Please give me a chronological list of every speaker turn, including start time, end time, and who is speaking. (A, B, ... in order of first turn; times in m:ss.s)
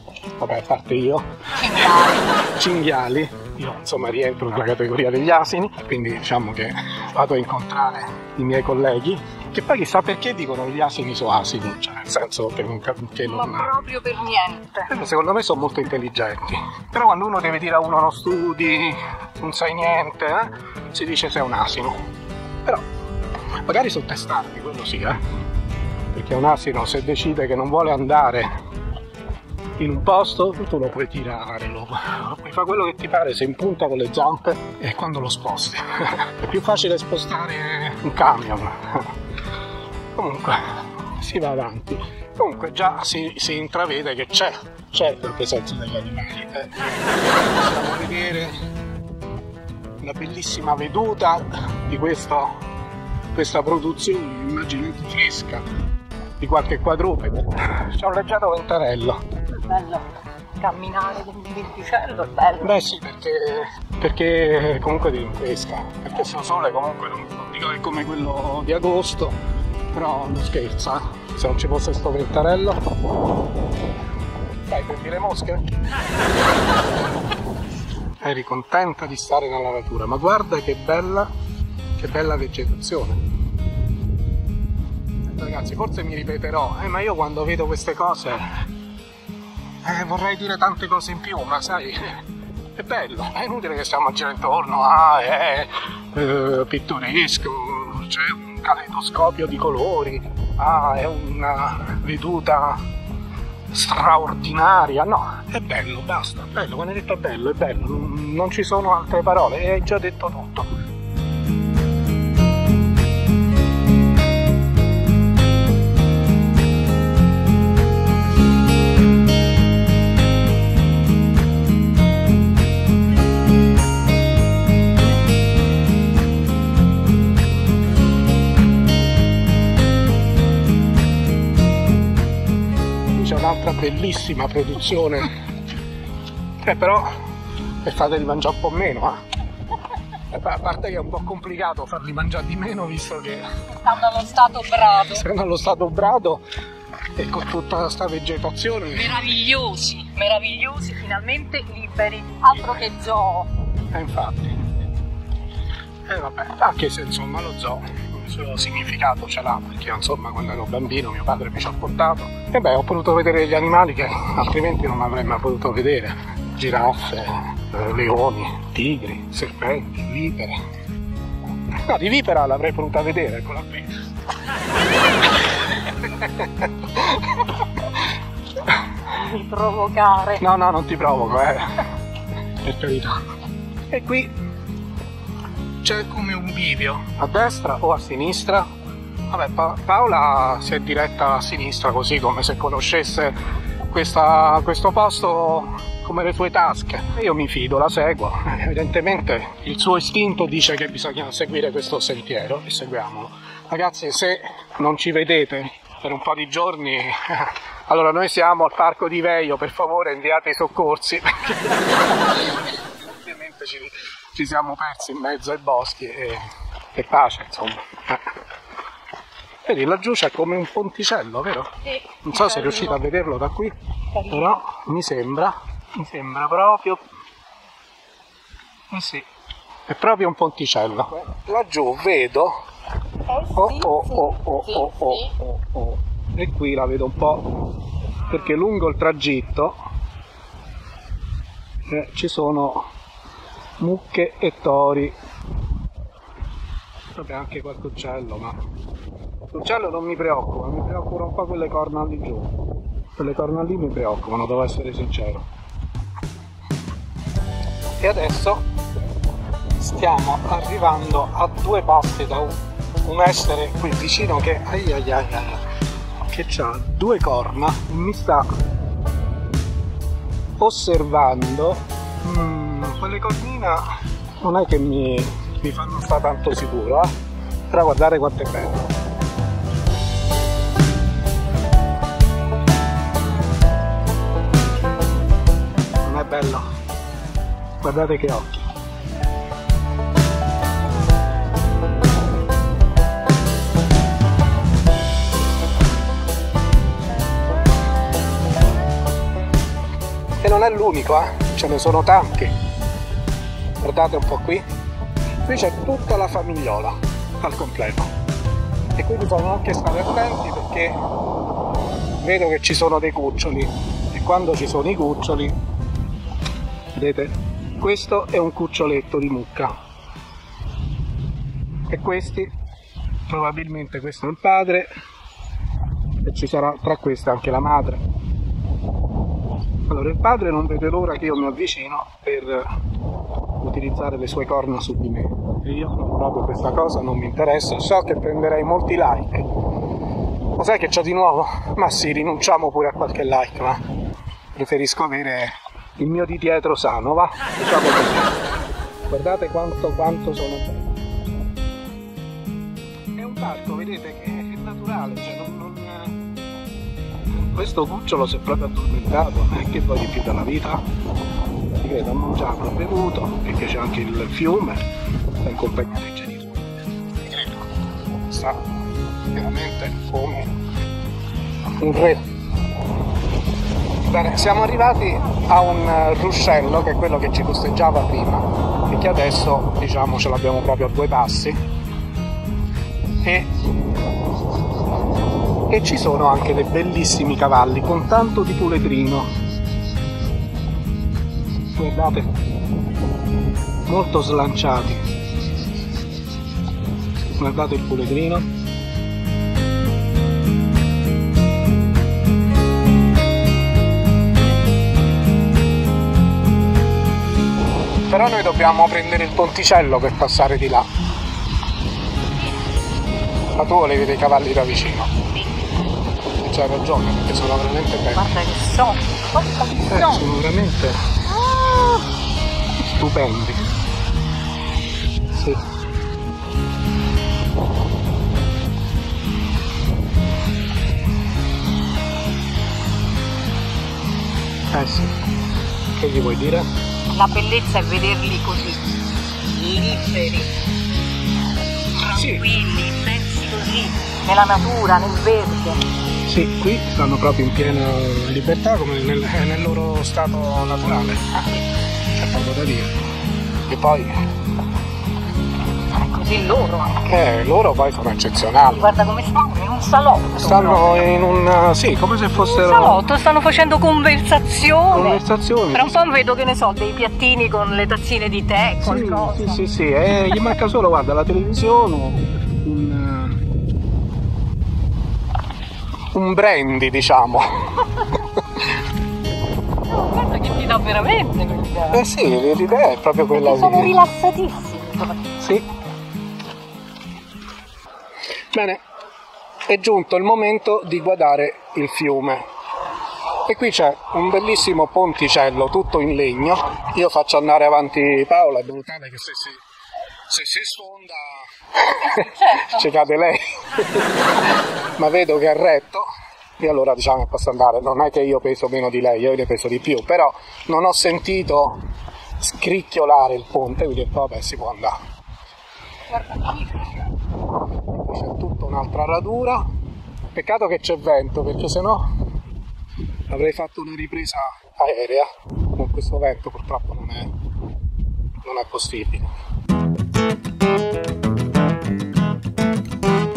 0:00.4-0:13.7 A
0:01.6-0:02.4 B
0:13.2-0:15.0 B
0:14.9-0:22.0 A
0:23.6-0:25.2 A
0:26.1-0:28.5 A
0:29.8-0:39.1 A
0:40.2-0:48.6 A
0:50.0-0:52.6 A
0:53.3-0:55.6 A
0:56.4-0:59.2 A
0:59.6-1:00.0 B
1:00.6-1:02.8 B
1:02.6-1:09.4 A
1:09.9-1:12.8 A
1:14.7-1:15.7 A
1:18.2-1:21.3 A
1:22.0-1:23.2 A
1:25.2-1:28.5 A
1:29.8-1:32.2 A
1:32.8-1:42.8 A
1:43.7-1:50.7 A
2:13.1-2:15.3 A
2:16.6-2:17.1 A
2:17.8-2:19.2 A
2:20.3-2:23.4 A
2:23.8-2:25.2 B
2:25.1-2:26.4 A
2:27.2-2:29.2 A
2:29.0-2:33.5 B
2:32.5-2:32.9 A
2:33.9-2:34.6 A
2:36.1-2:50.6 A
2:51.7-2:53.9 A
2:55.2-2:58.0 A
2:59.1-3:00.4 B
3:00.4-3:01.7 A
3:02.6-3:03.2 A
3:03.9-3:04.3 A
3:05.8-3:08.7 A
3:09.3-3:38.2 A
3:39.6-3:43.8 A
3:42.1-3:42.9 B
3:44.1-3:44.6 B
3:44.3-3:47.0 A
3:48.9-3:49.3 A
3:49.9-3:52.6 A
3:53.3-3:55.3 B
3:53.5-3:57.5 A
3:58.3-3:59.8 A
4:01.9-4:02.9 A
4:03.8-4:05.1 A
4:07.2-4:08.6 A
4:09.5-4:12.5 A
4:13.2-4:15.4 A
4:18.0-4:18.6 A
4:19.8-4:25.6 A
4:26.2-4:28.5 A
4:30.6-4:33.9 A
4:34.4-4:37.1 A
4:37.7-4:38.9 A
4:46.0-4:46.7 A
4:47.8-4:48.7 A
5:00.4-5:02.6 A
5:03.8-5:04.6 A
5:05.4-5:08.1 A
5:09.0-5:11.0 A
5:12.2-5:15.6 A
5:16.9-5:19.8 A
5:21.9-5:22.5 A
5:23.3-5:24.9 A
5:26.2-5:28.0 A
5:29.9-5:32.7 A
5:33.6-5:39.5 A
5:40.6-5:43.8 A
5:44.5-5:48.3 A
5:49.1-5:50.9 A
5:53.2-5:56.2 A
5:57.4-6:00.8 A
6:01.8-6:04.8 A
6:05.4-6:07.6 A
6:08.3-6:08.6 A
6:09.3-6:10.5 A
6:11.8-6:12.2 A
6:14.0-6:21.6 A
6:23.2-6:23.5 A
6:25.7-6:29.3 A
6:31.7-6:32.3 A
6:33.9-6:35.0 A
6:37.4-6:38.5 A
6:48.1-6:50.9 A
6:53.6-6:55.2 A
6:56.4-6:58.3 A
6:58.1-7:00.3 B
6:59.9-7:01.2 A
7:01.4-7:02.0 B
7:02.8-7:03.6 A
7:05.3-7:05.6 A
7:14.7-7:15.2 A
7:16.0-7:16.7 A
7:17.1-7:18.9 B
7:19.4-7:20.5 B
7:22.0-7:25.8 B
7:22.1-7:22.5 A
7:26.2-7:32.9 A
7:33.7-7:34.2 A
7:35.9-7:37.1 B
7:37.0-7:38.9 A
7:38.7-7:41.1 B
7:40.4-7:43.0 A
7:42.4-7:45.2 B
7:44.9-7:46.0 A
7:45.7-7:49.6 B
7:48.8-7:53.4 A
7:50.3-7:50.5 B
7:56.1-7:58.7 A
7:59.9-8:02.0 B
8:01.9-8:04.0 A
8:03.3-8:05.3 B
8:05.4-8:05.6 A
8:08.5-8:08.8 A
8:09.7-8:12.4 A
8:13.4-8:19.6 A
8:20.3-8:24.2 A
8:22.2-8:22.7 B
8:25.0-8:26.1 A
8:26.6-8:31.8 A
8:32.4-8:35.0 A
8:36.1-8:36.9 B
8:37.9-8:39.6 A
8:40.3-8:42.1 A
8:43.3-8:47.3 A
8:48.4-8:49.3 A